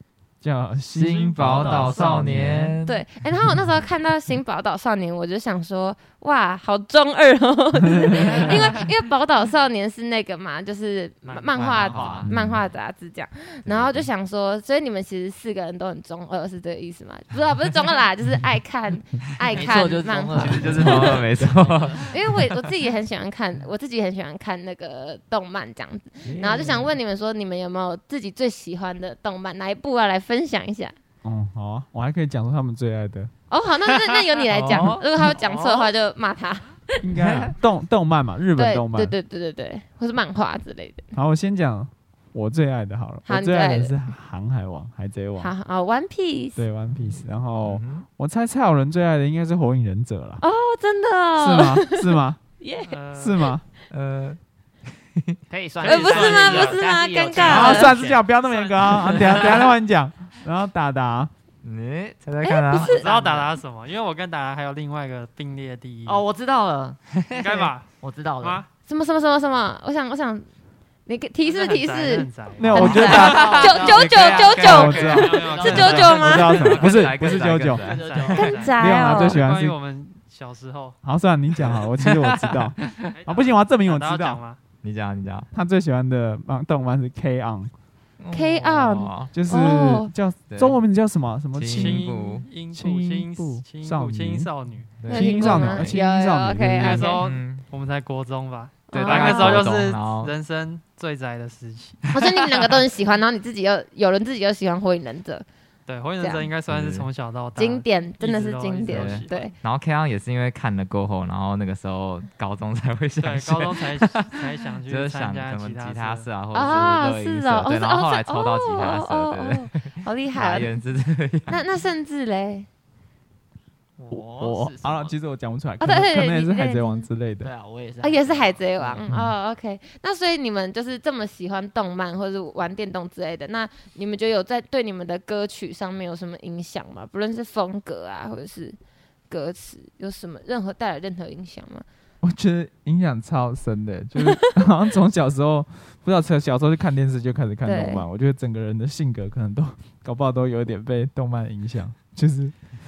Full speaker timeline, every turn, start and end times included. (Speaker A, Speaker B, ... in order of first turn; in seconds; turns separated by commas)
Speaker A: 0.4-2.8, Speaker B: 0.9-3.0, Speaker C: 1.4-2.2, Speaker D: 2.9-21.2, Speaker C: 11.2-12.3, Speaker B: 11.8-12.3, Speaker A: 12.3-12.6, Speaker B: 13.7-14.1, Speaker E: 19.5-22.1, Speaker B: 20.4-22.6, Speaker D: 22.1-30.9, Speaker A: 26.2-26.9, Speaker A: 31.2-33.3, Speaker D: 33.5-37.1, Speaker B: 34.5-35.0, Speaker A: 34.7-35.0, Speaker E: 35.2-35.9, Speaker A: 37.0-39.1, Speaker D: 38.6-41.0, Speaker A: 41.1-45.5, Speaker D: 43.3-43.9, Speaker D: 45.4-46.6, Speaker A: 46.6-50.4, Speaker B: 47.6-48.1, Speaker D: 50.4-52.1, Speaker A: 51.4-52.4, Speaker D: 52.6-52.9, Speaker C: 52.9-53.5, Speaker A: 53.1-53.6, Speaker B: 53.9-54.4, Speaker E: 55.5-58.3, Speaker C: 55.8-56.8, Speaker D: 55.8-58.0, Speaker A: 57.4-61.3, Speaker C: 58.4-59.5, Speaker E: 58.8-59.5, Speaker B: 61.6-63.0, Speaker D: 62.4-63.1, Speaker C: 62.9-66.2, Speaker E: 63.0-63.5, Speaker E: 66.1-68.7, Speaker C: 67.4-68.7, Speaker D: 68.9-70.5, Speaker D: 71.1-76.8, Speaker C: 71.4-73.4, Speaker A: 72.5-74.1, Speaker E: 72.8-76.3, Speaker B: 73.0-78.4, Speaker C: 74.1-77.1, Speaker A: 74.6-77.9, Speaker E: 77.7-78.7, Speaker C: 78.0-81.0, Speaker D: 78.3-79.4, Speaker A: 78.8-79.8, Speaker A: 81.0-84.4, Speaker B: 82.0-83.0, Speaker C: 83.1-84.6, Speaker B: 84.8-85.5, Speaker A: 85.5-87.7, Speaker B: 88.2-89.3, Speaker D: 88.3-90.1, Speaker A: 89.3-92.2, Speaker B: 90.5-90.8, Speaker B: 91.6-92.5, Speaker C: 91.7-95.5, Speaker A: 92.7-97.1, Speaker B: 95.0-95.9, Speaker D: 95.1-97.2, Speaker C: 96.8-102.1, Speaker B: 97.2-97.7, Speaker D: 98.9-99.7, Speaker B: 98.9-100.3, Speaker D: 102.1-105.5, Speaker C: 105.9-109.5, Speaker D: 106.2-106.5, Speaker B: 106.7-107.1, Speaker D: 107.6-109.5, Speaker B: 108.9-121.6, Speaker C: 113.2-116.9, Speaker D: 116.5-120.7, Speaker D: 121.5-122.7, Speaker E: 124.0-125.2, Speaker A: 124.1-127.5, Speaker D: 125.8-127.1, Speaker E: 127.4-129.1, Speaker D: 128.0-138.8, Speaker A: 129.1-129.3, Speaker D: 139.3-141.8, Speaker A: 142.2-152.5, Speaker D: 147.7-148.1